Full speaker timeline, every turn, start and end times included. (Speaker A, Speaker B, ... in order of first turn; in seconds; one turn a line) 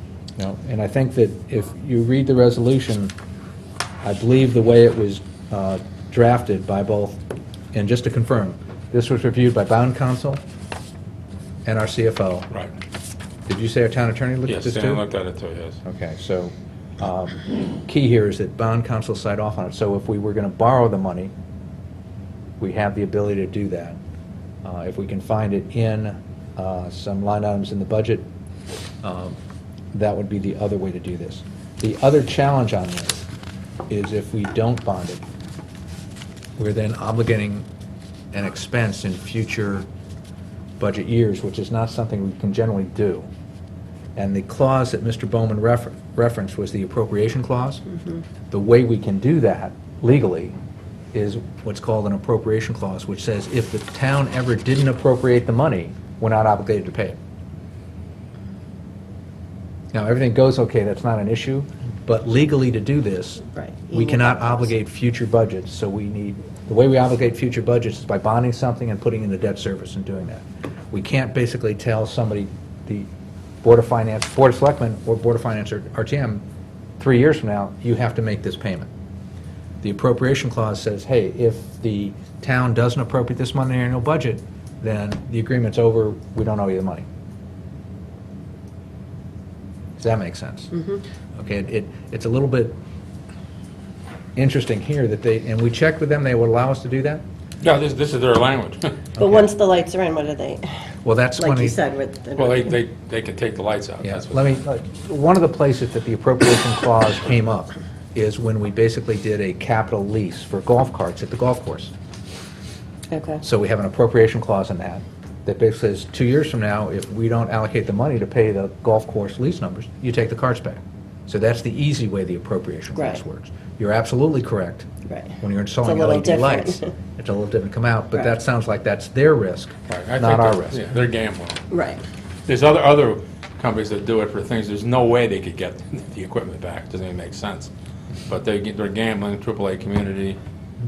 Speaker A: 0.4-3.1
Speaker A: 4.0-7.2
Speaker A: 7.7-10.4
Speaker A: 11.6-12.5
Speaker A: 13.5-15.0
Speaker B: 14.5-15.8
Speaker A: 15.8-21.3
Speaker A: 22.6-24.0
Speaker A: 24.6-28.3
Speaker A: 29.0-29.4
Speaker A: 29.9-33.2
Speaker A: 33.9-35.2
Speaker A: 36.6-37.7
Speaker A: 38.3-39.9
Speaker A: 40.8-43.3
Speaker A: 44.1-47.9
Speaker A: 48.5-50.5
Speaker A: 51.1-57.2
Speaker A: 59.9-73.1
Speaker C: 63.5-64.7
Speaker A: 73.6-76.4
Speaker A: 77.0-78.9
Speaker A: 79.8-87.1
Speaker A: 90.0-90.8
Speaker A: 91.3-92.7
Speaker A: 94.3-97.2
Speaker B: 97.6-99.0
Speaker C: 99.2-100.7
Speaker A: 101.0-101.8
Speaker C: 101.4-102.7
Speaker B: 102.3-104.5
Speaker A: 104.0-111.9
Speaker C: 113.1-113.4
Speaker A: 113.4-124.9
Speaker C: 123.0-123.2
Speaker C: 125.1-126.8
Speaker A: 125.4-130.9
Speaker B: 129.9-131.7
Speaker C: 131.7-132.0
Speaker B: 132.5-137.7
Speaker B: 138.2-140.4